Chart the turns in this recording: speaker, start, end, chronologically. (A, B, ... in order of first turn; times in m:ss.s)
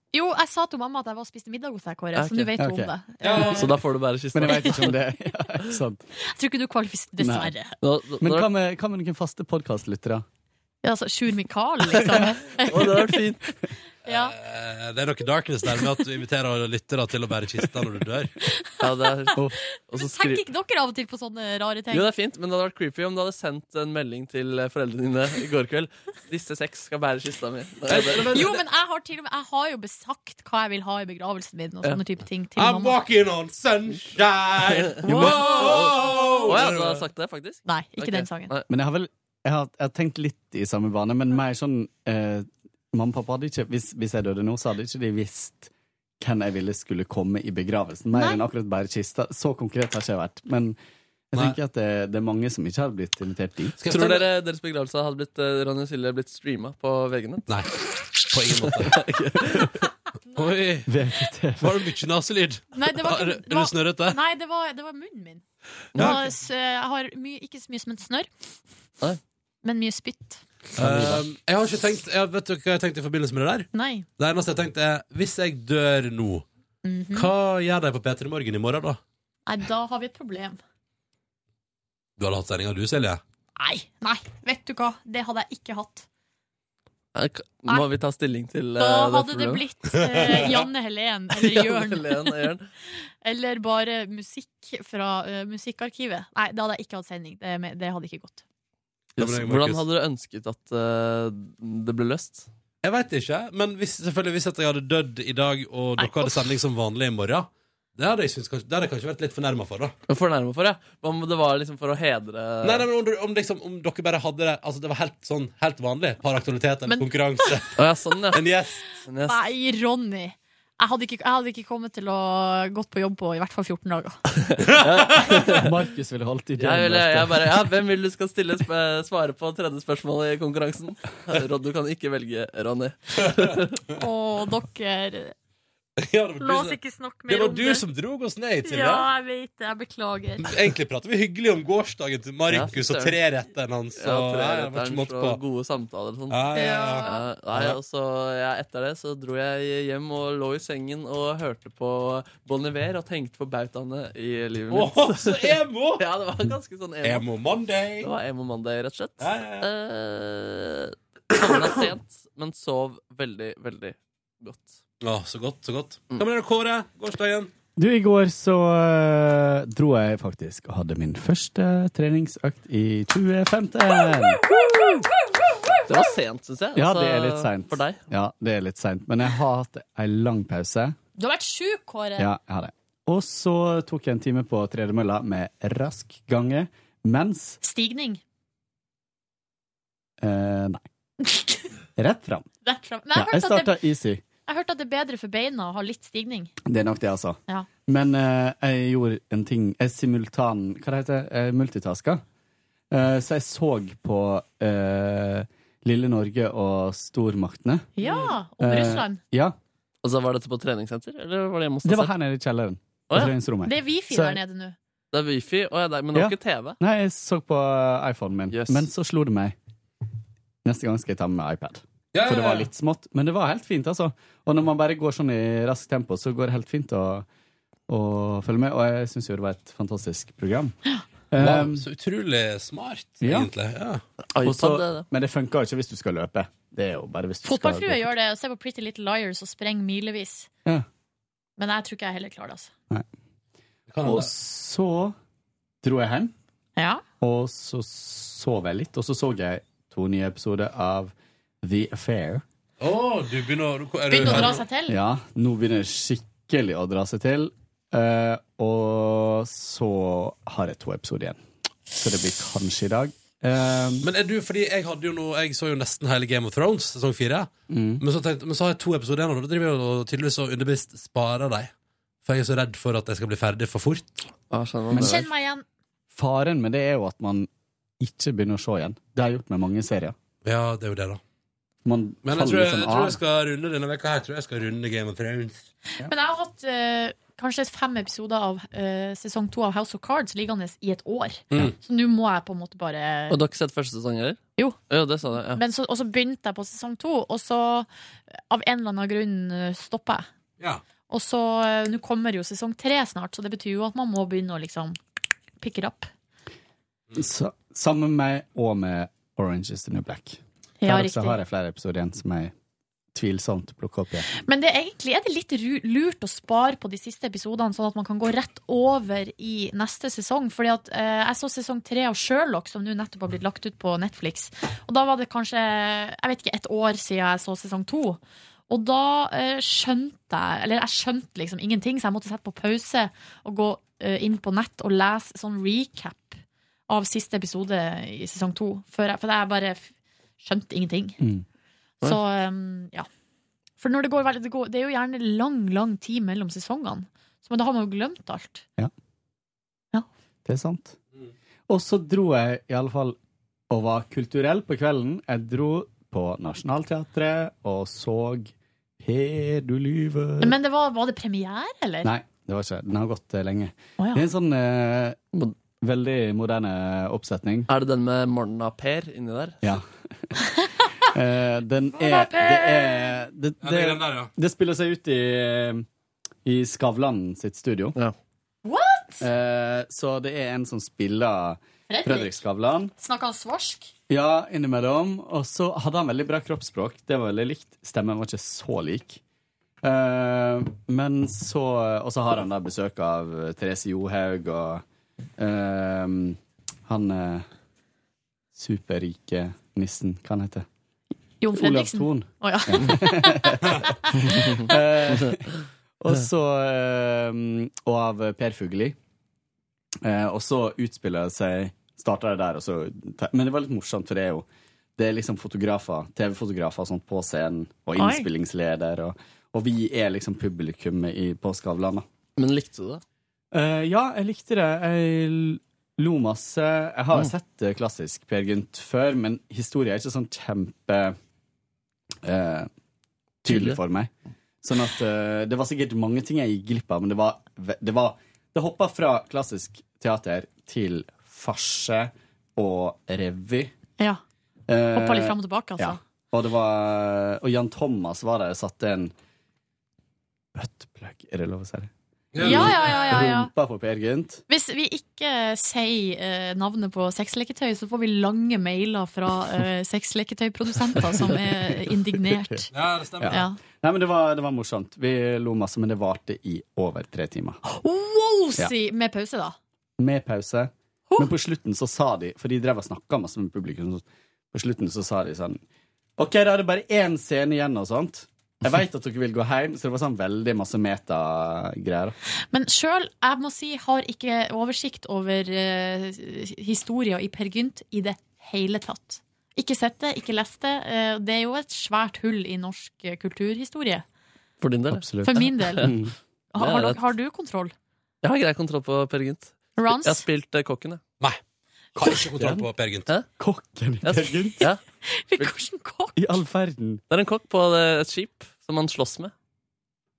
0:00.1-0:03.7 A
0:02.2-0:02.5 B
0:02.6-0:03.4 C
0:03.2-0:03.7 D
0:03.6-0:05.0 B
0:04.3-0:06.0 C
0:04.5-0:04.8 A
0:06.3-0:07.8 A
0:07.2-0:07.5 C
0:07.8-0:08.5 B
0:08.2-0:10.2 C
0:10.8-0:13.1 A
0:12.7-0:13.4 B
0:14.0-0:14.3 A
0:14.0-0:18.3 D
0:18.8-0:20.4 B
0:19.4-0:22.0 A
0:21.9-0:28.4 B
0:27.9-0:28.6 D
0:28.3-0:33.0 A
0:32.6-0:37.0 D
0:34.8-0:38.7 B
0:35.1-0:35.4 C
0:35.1-0:36.4 A
0:37.7-0:38.5 A
0:38.7-0:50.8 C
0:48.1-0:48.4 A
0:51.3-0:53.8 C
0:53.8-0:54.3 D
0:53.9-0:57.5 B
0:57.5-0:57.7 D
0:58.2-0:59.0 D
0:58.7-0:59.7 B
1:00.3-1:00.9 D
1:00.9-1:01.8 C
1:01.6-1:04.2 D
1:02.7-1:05.4 A
1:06.0-1:08.3 A
1:06.0-1:06.2 D
1:09.6-1:10.4 A
1:10.8-1:11.2 C
1:10.8-1:16.5 D
1:13.7-1:14.1 A
1:16.8-1:17.3 A
1:17.1-1:19.0 D
1:19.5-1:20.6 A
1:22.2-1:23.2 D
1:23.6-1:26.1 A
1:27.2-1:29.6 B
1:28.8-1:32.4 A
1:30.1-1:30.5 D
1:31.4-1:32.7 B
1:33.2-1:38.4 A
1:39.2-1:39.8 D
1:39.2-1:42.5 B
1:42.8-1:49.9 D
1:46.0-1:46.4 A
1:50.1-1:52.8 B
1:52.6-1:57.8 D
1:56.9-1:57.7 A
1:57.8-1:58.4 B
1:58.3-1:58.8 D
1:59.1-1:59.4 B
1:59.3-2:04.2 A
2:04.4-2:05.7 B
2:04.8-2:05.4 D
2:05.6-2:07.6 C
2:06.6-2:13.8 B
2:14.0-2:15.4 A
2:16.0-2:19.1 D
2:16.4-2:17.8 A
2:18.6-2:20.5 A
2:20.4-2:25.4 D
2:22.5-2:23.2 B
2:24.0-2:37.2 B
2:26.3-2:27.8 D
2:26.5-2:27.2 A
2:34.7-2:36.0 D
2:37.0-2:38.1 D
2:38.0-2:44.8 B
2:39.2-2:39.7 D
2:45.0-2:47.5 D
2:47.8-2:54.4 C
2:54.4-2:55.4 A
2:55.9-2:58.0 B
2:56.8-3:01.0 C
3:01.2-3:02.3 A
3:02.2-3:07.6 C
3:07.6-3:08.2 A
3:10.2-3:10.8 C
3:11.3-3:11.6 A
3:12.0-3:12.5 C
3:12.6-3:13.8 A
3:13.1-3:14.2 C
3:14.5-3:16.5 A
3:16.7-3:22.2 C
3:22.9-3:27.9 C
3:28.0-3:29.2 A
3:28.6-3:29.6 C
3:30.0-3:32.2 B
3:31.8-3:34.4 C
3:33.7-3:34.8 A
3:35.1-3:36.8 B
3:36.1-3:39.6 C
3:38.5-3:38.9 B
3:40.6-3:47.3 C
3:42.1-3:42.7 D
3:47.9-3:50.8 C
3:51.3-3:51.8 C
3:51.4-3:54.0 D
3:53.2-3:53.5 C
3:54.4-3:55.1 B
3:54.4-3:58.1 C
3:57.4-4:00.5 A
4:01.6-4:02.7 A
4:03.9-4:04.3 D
4:04.0-4:05.2 C
4:05.8-4:06.3 C
4:06.8-4:07.0 A
4:07.2-4:12.4 C
4:12.8-4:14.6 D
4:14.1-4:15.0 A
4:14.2-4:21.4 C
4:21.9-4:24.1 C
4:24.0-4:31.7 D
4:27.7-4:28.0 C
4:32.2-4:34.2 D
4:34.5-4:35.3 B
4:34.9-4:35.2 C
4:34.9-4:35.6 A
4:36.1-4:37.5 C
4:38.0-4:40.2 C
4:40.4-4:41.2 D
4:41.8-4:43.2 C
4:42.2-4:45.7 D
4:46.0-4:53.4 A
4:53.3-4:55.6 B
4:55.6-5:00.3 A
5:01.1-5:05.0 A
5:05.6-5:06.1 A
5:07.2-5:12.5 C
5:10.8-5:11.4 A
5:13.1-5:14.3 C
5:14.4-5:41.2 A
5:41.2-5:41.4 C
5:42.0-5:43.1 A
5:43.8-5:48.6 A
5:50.5-5:51.0 C
5:51.7-5:53.2 C
5:53.7-6:00.6 C
6:00.4-6:02.1 A
6:02.0-6:05.2 C
6:04.0-6:04.2 A
6:05.8-6:07.7 C
6:07.7-6:09.7 B
6:09.6-6:10.3 C
6:11.0-6:15.9 C
6:12.0-6:13.2 A
6:13.6-6:14.3 D
6:16.4-6:18.0 C
6:18.6-6:19.3 A
6:19.2-6:22.9 C
6:21.9-6:22.4 A
6:23.0-6:23.9 A
6:24.1-6:29.2 C
6:29.8-6:34.8 C
6:35.4-6:37.4 C
6:38.5-6:40.7 C
6:41.4-6:44.1 A
6:41.5-6:45.5 C
6:46.0-6:49.0 C
6:50.0-6:54.4 C
6:55.0-7:02.0 C
6:58.0-6:58.3 A
7:02.4-7:03.0 B
7:03.5-7:11.2 C
7:12.2-7:12.7 C
7:13.4-7:14.1 C
7:13.5-7:13.8 B
7:14.6-7:23.7 C
7:24.7-7:29.1 C
7:25.0-7:26.0 A
7:30.6-7:34.4 C
7:32.3-7:33.0 D
7:32.4-7:33.5 A
7:34.5-7:42.7 A
7:41.2-7:42.7 C
7:42.7-7:43.4 D
7:43.2-7:47.6 C
7:43.3-7:43.6 A
7:47.7-7:49.6 A
7:50.0-7:55.6 C
7:56.2-8:02.2 C
8:02.5-8:14.0 A
8:14.6-8:15.9 B
8:14.9-8:16.1 C
8:15.2-8:15.9 A
8:16.5-8:17.7 A
8:16.6-8:17.0 B
8:18.2-8:21.0 B
8:19.8-8:20.2 A
8:22.0-8:22.7 C
8:22.0-8:23.1 D
8:23.4-8:24.6 C
8:24.0-8:24.8 B
8:25.0-8:26.2 A
8:26.2-8:27.0 C
8:27.1-8:29.3 B